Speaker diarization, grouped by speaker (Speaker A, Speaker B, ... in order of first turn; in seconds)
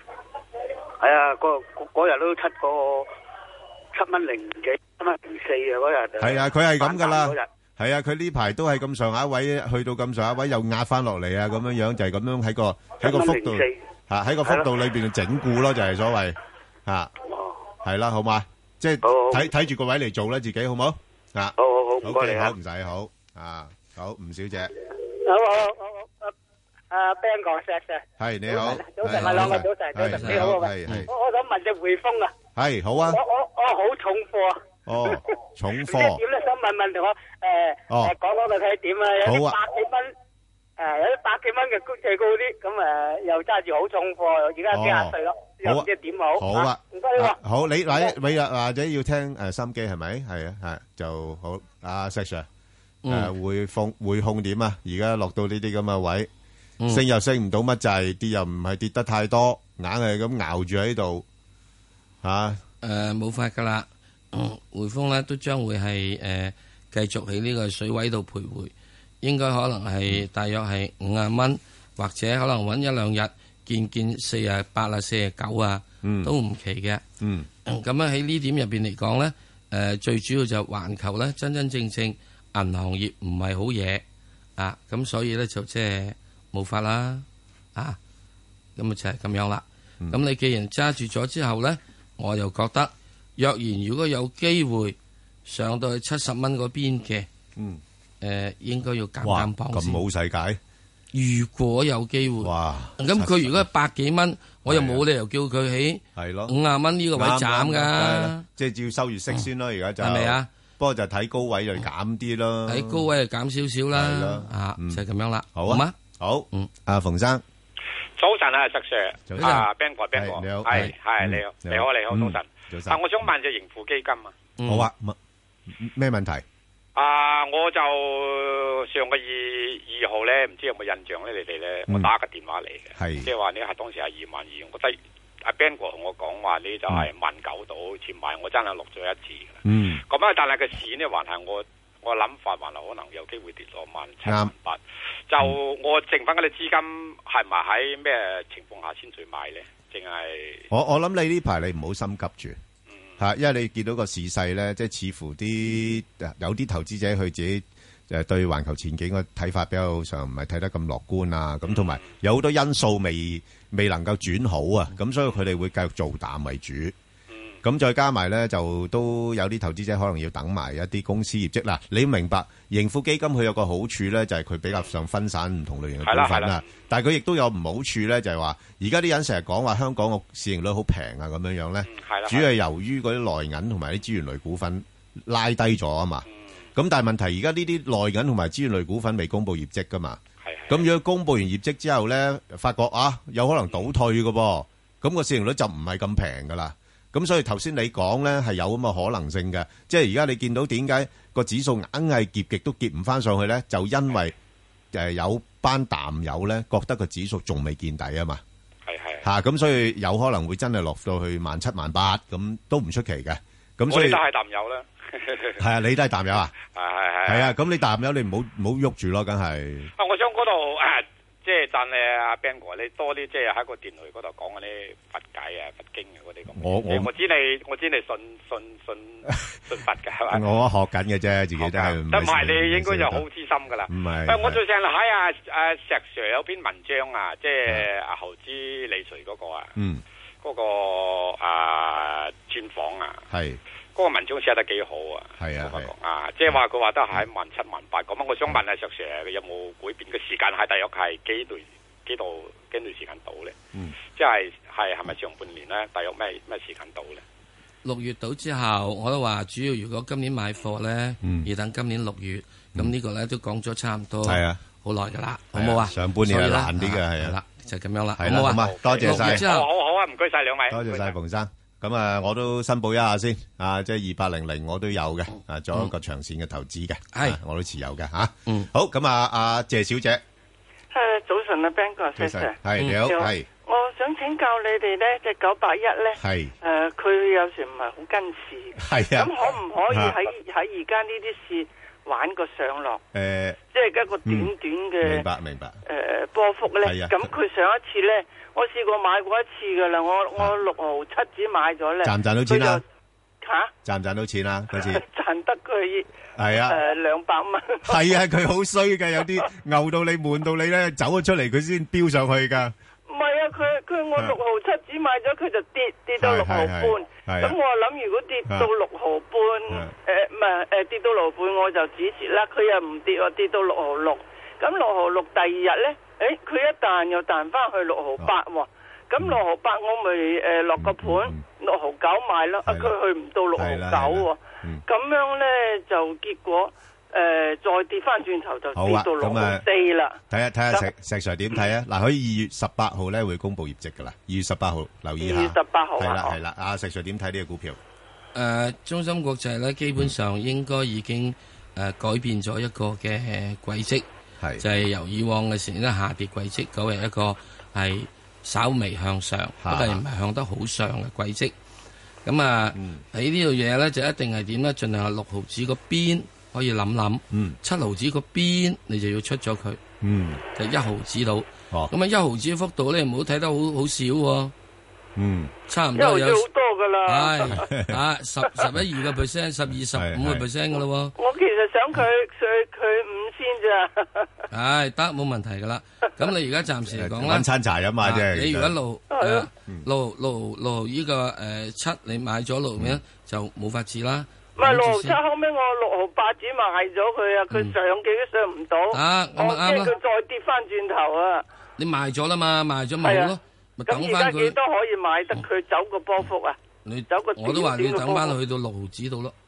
Speaker A: 1.0-3.1, 4.0-7.5, 13.0-13.8, 17.3-17.6, 19.0-19.5, 21.6-22.5
Speaker B: 6.2-17.1, 17.8-24.7, 28.2-31.1, 32.6-33.2, 34.9-36.2, 39.2-39.6, 44.7-52.5, 53.1-56.3, 56.9-61.2, 62.2-62.6, 76.0-76.3, 77.2-77.5, 99.2-100.6, 102.4-103.7, 104.7-105.1, 106.2-106.5, 107.2-113.1, 113.9-115.0, 115.6-117.4, 119.3-123.3, 124.7-125.2, 125.7-126.4, 133.0-133.3, 139.6-140.0, 144.2-144.5, 150.7-152.6, 153.2-166.9, 167.6-204.3, 204.9-208.4, 209.2-214.2, 215.6-216.6, 217.2-219.9, 226.6-227.1, 229.3-229.8, 230.3-233.3, 233.9-234.6, 239.8-240.0, 243.3-243.6, 245.4-245.9, 261.2-261.5, 264.2-264.6, 265.6-267.4, 268.2-269.5, 270.7-280.2, 282.2-283.5, 286.2-286.5, 288.8-290.2, 293.1-293.6, 294.2-295.8, 296.8-297.4, 302.0-302.8, 303.9-305.1, 306.4-306.8, 307.9-312.7, 316.2-317.6, 319.7-319.9, 330.8-331.4, 332.6-333.0, 333.6-334.8, 338.8-339.7, 340.3-347.8, 359.6-360.0, 362.8-363.0, 367.3-367.6, 370.0-370.4, 375.2-375.5, 377.5-378.0, 379.9-380.4, 386.9-388.8
Speaker C: 25.2-26.3, 26.9-32.3, 33.1-35.2, 35.9-40.1, 40.8-47.4
Speaker D: 29.1-31.1, 53.0-53.3, 62.8-77.0, 77.7-84.0, 84.6-88.0, 88.8-97.3, 98.2-100.0, 101.1-108.4, 110.0-110.5, 112.7-116.0, 119.4-119.7, 124.6-124.9, 257.8-269.7, 277.1-277.4, 282.8-283.1, 348.3-354.1, 354.6-361.5, 362.2-369.8, 370.6-374.5, 375.7-376.5, 377.1-381.1, 384.5-387.4, 388.0-395.2, 397.5-397.8, 398.9-399.9, 401.8-404.6, 406.9-409.3
Speaker E: 118.2-124.3, 127.0-150.7, 161.7-162.0, 176.1-176.7, 181.8-182.5, 190.4-190.9, 208.9-209.3, 213.9-215.6, 216.7-217.5, 220.0-230.4, 231.6-239.7, 240.4-243.2, 243.9-253.6, 254.2-257.2, 268.6-271.1
Speaker F: 280.9-293.0, 293.7-295.2, 295.9-302.8, 303.4-303.7, 304.8-308.0, 313.1-340.2, 345.2-346.4, 376.0-377.7, 381.2-384.3, 389.1-389.5, 394.6-401.4, 403.0-408.4